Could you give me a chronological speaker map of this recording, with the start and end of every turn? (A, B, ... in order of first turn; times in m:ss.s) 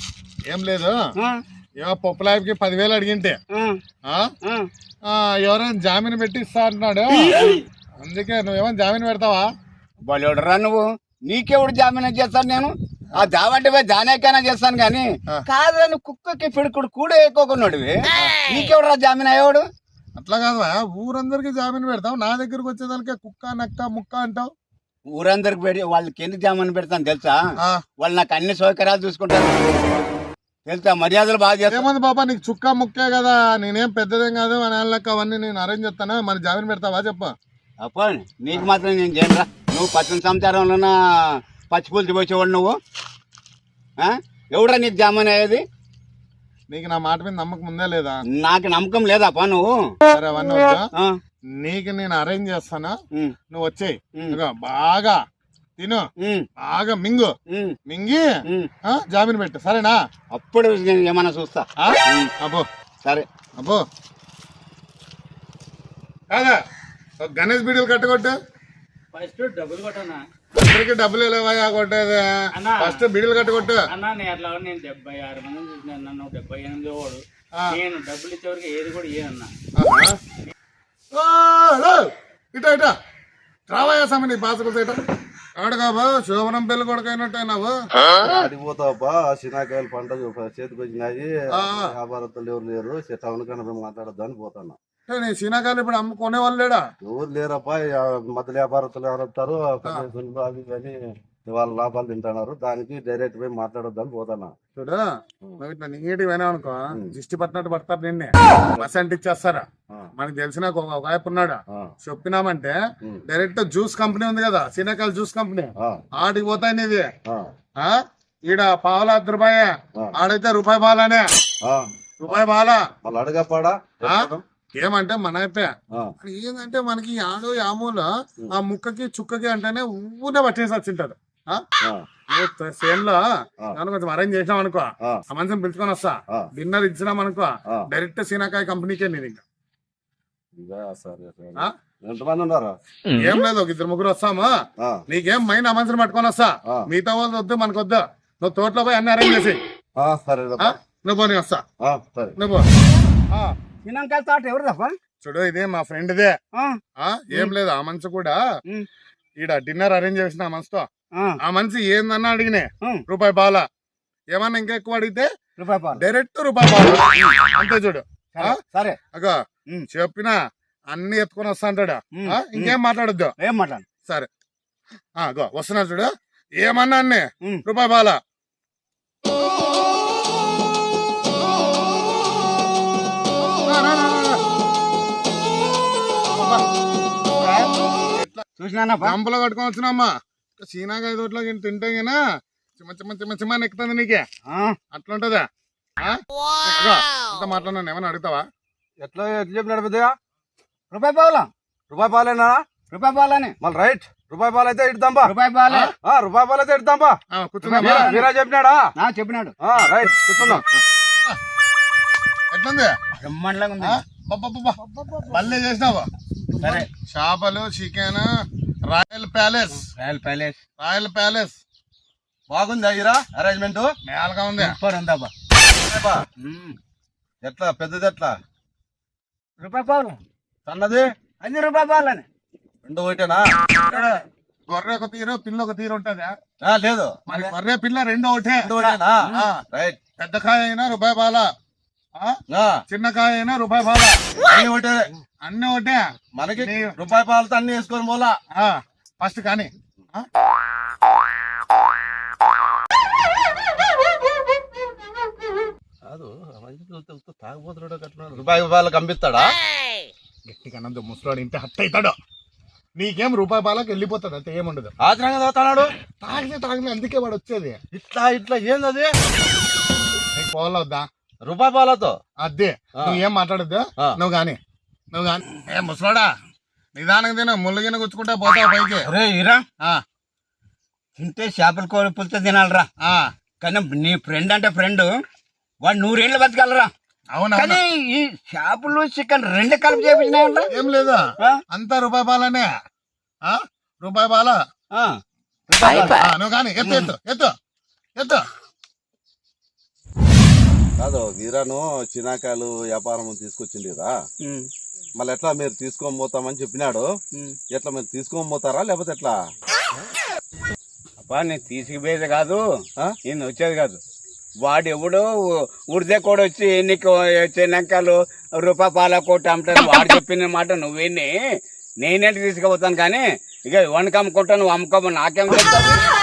0:00.5-0:01.0 A
0:01.8-0:03.4 A
0:05.0-0:09.5 A
0:07.1-0:07.6 B
0:10.1-0:19.6 B
0:20.2-0:24.5 A
0:25.1-0:27.4 B
0:28.0-0:29.7 B
0:30.7-0:31.8 B
0:31.7-0:37.3 A
0:37.8-0:42.8 B
0:44.0-0:45.6 B
0:46.7-0:48.2 A
0:48.3-0:49.9 B
0:50.1-0:50.9 A
0:51.6-0:53.0 A
0:53.5-0:55.2 A
0:55.8-0:56.0 A
0:56.2-0:56.5 B
0:56.6-0:57.3 A
0:57.5-0:57.8 B
0:57.9-0:58.2 A
0:58.8-1:00.0 A
1:00.3-1:02.3 B
1:01.8-1:02.7 A
1:03.6-1:03.8 A
1:06.3-1:06.6 A
1:07.2-1:08.4 A
1:09.1-1:10.2 C
1:10.6-1:13.8 A
1:12.6-1:13.0 C
1:13.9-1:19.5 C
1:19.8-1:20.2 A
1:21.1-1:22.9 A
1:23.7-1:25.0 A
1:25.6-1:27.8 A
1:28.2-1:34.8 D
1:31.6-1:31.9 A
1:35.1-1:36.8 A
1:37.0-1:44.5 D
1:44.8-1:45.0 A
1:45.6-1:49.6 A
1:50.2-1:57.1 A
1:57.8-2:01.2 A
2:02.2-2:02.8 A
2:03.0-2:04.4 D
2:04.0-2:11.6 A
2:12.3-2:19.4 A
2:20.6-2:22.8 D
2:23.2-2:29.6 A
2:30.0-2:30.8 D
2:30.6-2:31.6 A
2:31.8-2:32.4 D
2:32.4-2:32.7 A
2:33.8-2:34.9 B
2:35.2-2:36.4 A
2:36.5-2:36.8 B
2:37.0-2:38.4 A
2:39.4-2:40.9 A
2:41.4-2:43.6 A
2:44.3-2:45.3 A
2:45.6-2:46.0 B
2:46.0-2:48.6 A
2:48.3-2:49.0 B
2:49.1-2:50.4 A
2:50.9-2:53.3 A
2:52.1-2:52.8 B
2:53.4-2:53.8 B
2:55.2-2:58.2 A
3:03.6-3:04.4 A
3:07.4-3:07.7 B
3:08.2-3:08.4 A
3:08.6-3:09.2 B
3:09.0-3:12.2 A
3:12.8-3:14.2 A
3:14.5-3:14.8 B
3:14.9-3:15.4 A
3:16.0-3:18.4 A
3:19.0-3:20.1 D
3:20.9-3:21.5 B
3:21.9-3:22.6 D
3:22.9-3:23.5 B
3:23.6-3:25.3 D
3:25.2-3:25.9 B
3:26.0-3:27.2 D
3:27.3-3:28.1 A
3:27.6-3:28.2 B
3:27.8-3:28.9 D
3:29.0-3:29.5 B
3:29.6-3:30.6 D
3:29.8-3:31.4 A
3:32.5-3:32.9 A
3:33.2-3:34.0 B
3:33.8-3:36.1 A
3:36.6-3:36.9 B
3:37.0-3:38.3 A
3:38.8-3:39.9 A
3:39.9-3:40.6 B
3:40.8-3:41.6 A
3:42.5-3:43.9 D
3:44.0-3:44.8 A
3:44.6-3:45.3 B
3:45.8-3:46.2 D
3:46.4-3:46.8 B
3:47.4-3:48.3 D
3:49.6-3:50.2 B
3:50.6-3:51.1 D
3:51.4-3:52.2 B
3:52.8-3:53.5 D
3:53.8-3:54.2 A
3:54.7-3:56.3 A
3:56.6-3:57.5 D
3:57.3-3:59.6 A
3:58.6-4:00.0 D
4:00.2-4:01.5 A
4:02.5-4:02.8 D
4:02.9-4:04.2 A
4:04.4-4:05.1 D
4:05.4-4:06.0 A
4:06.4-4:08.4 D
4:06.5-4:06.9 A
4:08.5-4:10.3 A
4:16.0-4:19.5 D
4:20.4-4:22.2 A
4:23.0-4:24.9 A
4:25.0-4:25.9 D
4:26.2-4:27.8 A
4:27.9-4:29.1 D
4:30.3-4:31.1 A
4:31.4-4:32.2 D
4:32.4-4:34.6 A
4:35.1-4:36.3 A
4:37.0-4:39.0 A
4:39.0-4:39.6 B
4:41.2-4:42.9 B
4:43.0-4:43.3 A
4:43.6-4:45.1 B
4:45.8-4:46.9 B
4:47.3-4:47.8 A
4:47.6-4:50.7 B
4:50.7-4:52.7 A
4:53.4-4:54.6 A
4:54.9-4:56.3 B
4:56.0-4:57.5 A
4:56.8-4:57.1 B
4:58.2-4:58.5 A
5:01.0-5:04.1 D
5:04.4-5:04.7 B
5:05.2-5:07.1 D
5:07.7-5:09.3 D
5:11.2-5:12.6 B
5:13.2-5:14.0 B
5:14.6-5:21.3 B
5:22.0-5:26.0 B